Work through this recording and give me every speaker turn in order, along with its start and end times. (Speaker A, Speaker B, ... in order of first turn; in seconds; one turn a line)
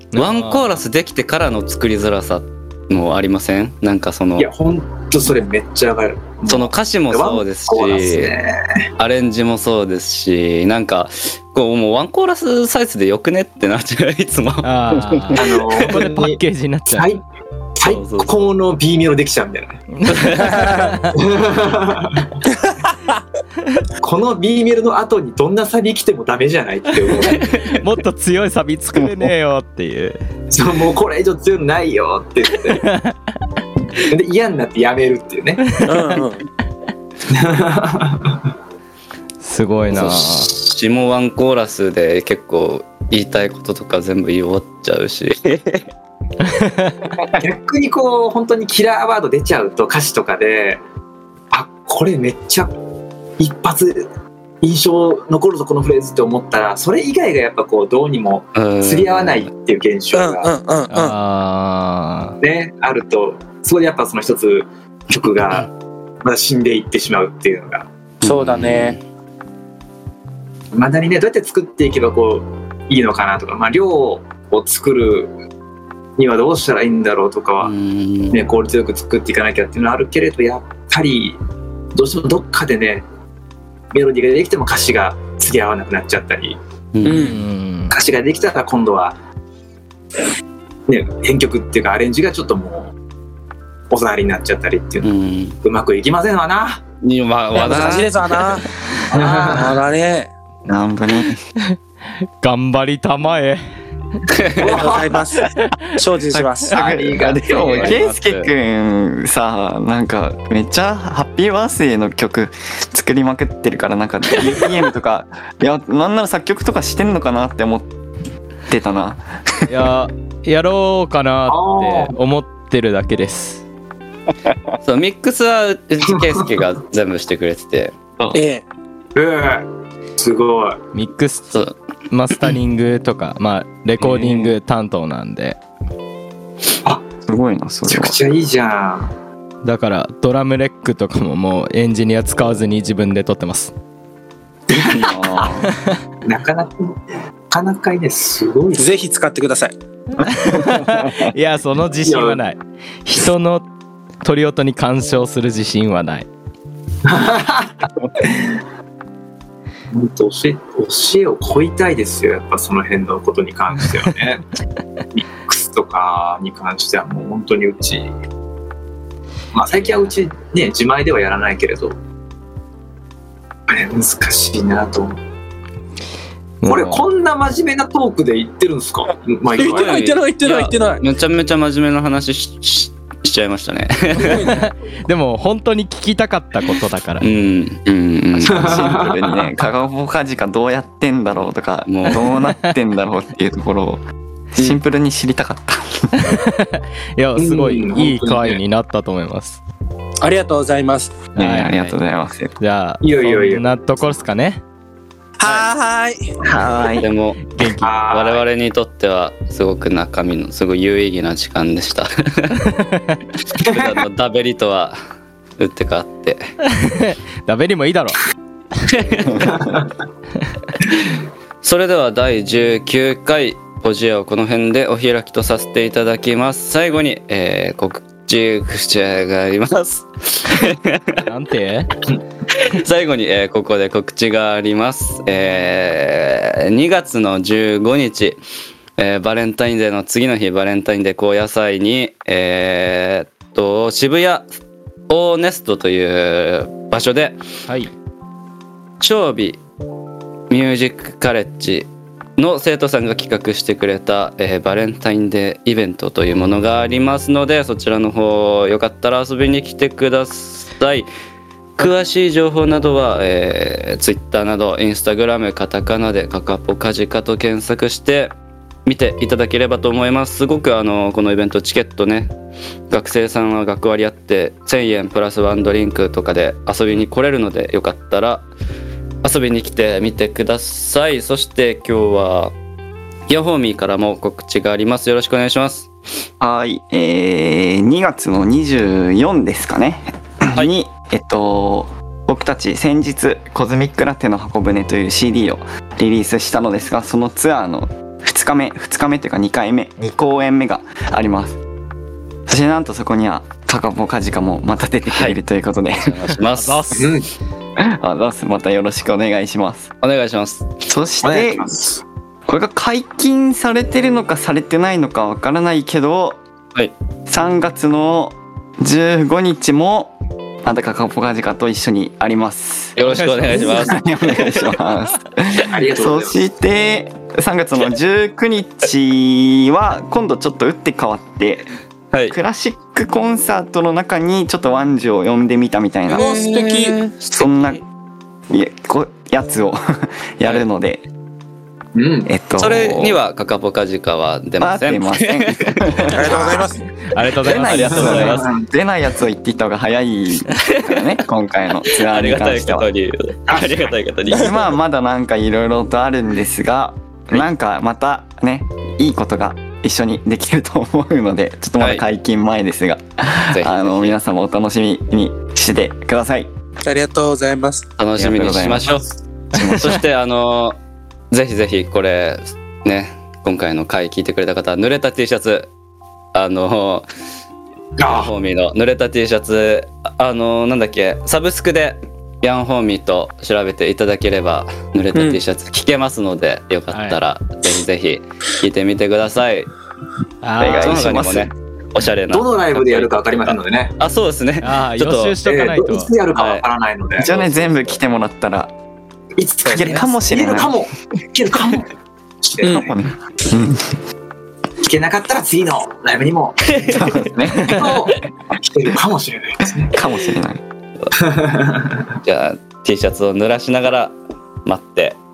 Speaker A: 0.1-0.8
Speaker B: 0.1-4.5
Speaker C: 4.4-8.8
Speaker B: 6.5-8.3
Speaker B: 9.0-14.7
Speaker A: 14.6-17.1
Speaker C: 15.3-17.2
Speaker C: 17.8-19.8
Speaker B: 17.8-18.5
Speaker A: 20.0-21.1
Speaker B: 20.0-20.9
Speaker D: 20.5-20.8
Speaker C: 21.1-22.4
Speaker D: 22.6-23.2
Speaker C: 24.0-27.5
Speaker B: 27.2-27.8
Speaker A: 27.8-30.2
Speaker C: 30.5-32.9
Speaker A: 32.8-33.1
Speaker C: 34.1-36.2
Speaker D: 35.8-36.4
Speaker C: 37.3-38.5
Speaker A: 39.4-40.5
Speaker B: 39.9-45.9
Speaker A: 46.4-47.1
Speaker C: 47.4-50.8
Speaker C: 51.5-52.7
Speaker C: 53.4-54.1
Speaker C: 54.6-60.5
Speaker B: 58.5-59.5
Speaker D: 60.1-61.2
Speaker A: 60.9-62.4
Speaker C: 62.4-65.7
Speaker B: 65.4-65.7
Speaker C: 66.2-67.9
Speaker B: 68.2-69.0
Speaker D: 68.2-69.0
Speaker C: 70.7-75.3
Speaker C: 76.2-77.7
Speaker B: 77.6-78.3
Speaker C: 78.3-81.4
Speaker C: 81.9-83.0
Speaker C: 83.9-86.6
Speaker B: 86.9-87.4
Speaker D: 87.0-87.4
Speaker A: 87.1-87.9
Speaker C: 87.9-89.2
Speaker C: 90.9-92.9
Speaker C: 93.9-95.1
Speaker B: 95.0-95.6
Speaker C: 95.6-96.8
Speaker B: 97.0-98.6
Speaker D: 97.5-100.3
Speaker C: 99.1-99.8
Speaker E: 100.7-101.4
Speaker A: 102.4-103.6
Speaker B: 104.4-104.6
Speaker C: 104.6-105.3
Speaker D: 104.6-106.8
Speaker E: 106.3-117.9
Speaker C: 106.7-108.0
Speaker B: 107.5-108.5
Speaker E: 118.7-119.9
Speaker A: 119.7-123.6
Speaker C: 121.5-122.2
Speaker B: 124.8-127.9
Speaker D: 128.3-128.6
Speaker C: 129.1-130.8
Speaker A: 130.9-135.6
Speaker B: 134.0-134.5
Speaker E: 137.3-138.2
Speaker C: 137.9-139.1
Speaker A: 139.6-143.7
Speaker C: 144.7-145.6
Speaker E: 144.7-145.7
Speaker C: 146.2-148.8
Speaker D: 148.7-149.7
Speaker A: 150.2-153.6
Speaker E: 150.4-151.3
Speaker C: 152.0-152.4
Speaker A: 154.2-156.3
Speaker C: 157.0-158.6
Speaker C: 159.9-164.5
Speaker C: 165.1-168.1
Speaker C: 169.5-171.9
Speaker C: 173.7-175.2
Speaker A: 176.6-177.0
Speaker C: 176.7-180.0
Speaker D: 179.5-181.0
Speaker B: 179.5-184.5
Speaker D: 184.2-184.7
Speaker A: 184.4-187.2
Speaker B: 187.2-188.7
Speaker C: 188.4-189.5
Speaker E: 188.5-194.0
Speaker B: 191.9-192.3
Speaker E: 194.6-196.3
Speaker A: 196.2-199.6
Speaker C: 197.4-198.6
Speaker D: 200.2-201.2
Speaker A: 201.3-201.9
Speaker E: 201.3-202.6
Speaker A: 202.6-204.6
Speaker C: 203.0-204.2
Speaker D: 205.4-206.3
Speaker B: 205.4-205.7
Speaker E: 206.4-207.1
Speaker B: 207.0-207.4
Speaker A: 207.5-208.0
Speaker C: 207.8-208.4
Speaker B: 208.1-212.6
Speaker A: 212.6-213.2
Speaker B: 213.6-215.0
Speaker B: 215.6-216.5
Speaker A: 216.7-218.2
Speaker B: 218.8-219.6
Speaker C: 219.5-219.9
Speaker B: 221.6-231.2
Speaker A: 231.2-231.9
Speaker B: 232.5-238.4
Speaker B: 239.0-244.5
Speaker B: 245.1-247.4
Speaker B: 249.0-249.6
Speaker B: 250.5-261.1
Speaker B: 261.8-268.3
Speaker B: 268.9-272.3
Speaker B: 272.9-278.4
Speaker B: 279.2-282.5
Speaker B: 283.3-285.9
Speaker E: 286.4-301.6
Speaker E: 302.5-306.4
Speaker B: 305.1-305.4
Speaker B: 305.9-306.9
Speaker A: 306.6-307.1
Speaker C: 306.9-307.3
Speaker E: 307.8-309.9
Speaker B: 310.0-310.7
Speaker E: 310.9-311.7
Speaker C: 311.2-312.0
Speaker E: 312.5-316.4
Speaker E: 317.3-331.7
Speaker B: 323.0-324.7
Speaker A: 323.1-323.9
Speaker C: 325.6-326.4
Speaker E: 332.3-336.3
Speaker D: 336.1-337.3
Speaker B: 336.1-337.5
Speaker E: 337.3-337.8
Speaker E: 338.5-341.1
Speaker C: 341.9-342.3
Speaker E: 342.2-343.2
Speaker B: 342.6-346.4
Speaker E: 344.6-346.7
Speaker D: 346.1-346.8
Speaker C: 346.3-346.6
Speaker A: 347.0-348.4
Speaker E: 347.4-352.9
Speaker B: 347.5-348.5
Speaker C: 347.9-348.6
Speaker B: 351.9-354.6
Speaker C: 353.5-353.9
Speaker E: 354.3-366.5
Speaker B: 363.5-364.1
Speaker D: 366.8-367.9
Speaker B: 368.0-369.1
Speaker E: 368.1-370.0
Speaker B: 369.7-370.8
Speaker B: 371.3-375.7
Speaker B: 376.3-377.1
Speaker C: 378.0-378.3
Speaker B: 378.0-389.7
Speaker A: 386.9-387.2
Speaker A: 390.4-391.1
Speaker E: 390.6-391.5
Speaker B: 390.6-395.4
Speaker C: 392.3-393.9
Speaker A: 394.6-396.1
Speaker C: 395.4-397.4
Speaker B: 396.3-396.6
Speaker E: 397.2-398.7
Speaker B: 397.2-398.0
Speaker C: 399.4-402.9
Speaker E: 399.7-400.8
Speaker D: 402.6-402.9
Speaker E: 402.6-404.0
Speaker C: 404.8-406.8
Speaker B: 406.7-407.1
Speaker E: 406.9-407.9
Speaker C: 407.6-410.0
Speaker E: 409.9-410.6
Speaker C: 411.1-412.1
Speaker B: 412.2-415.2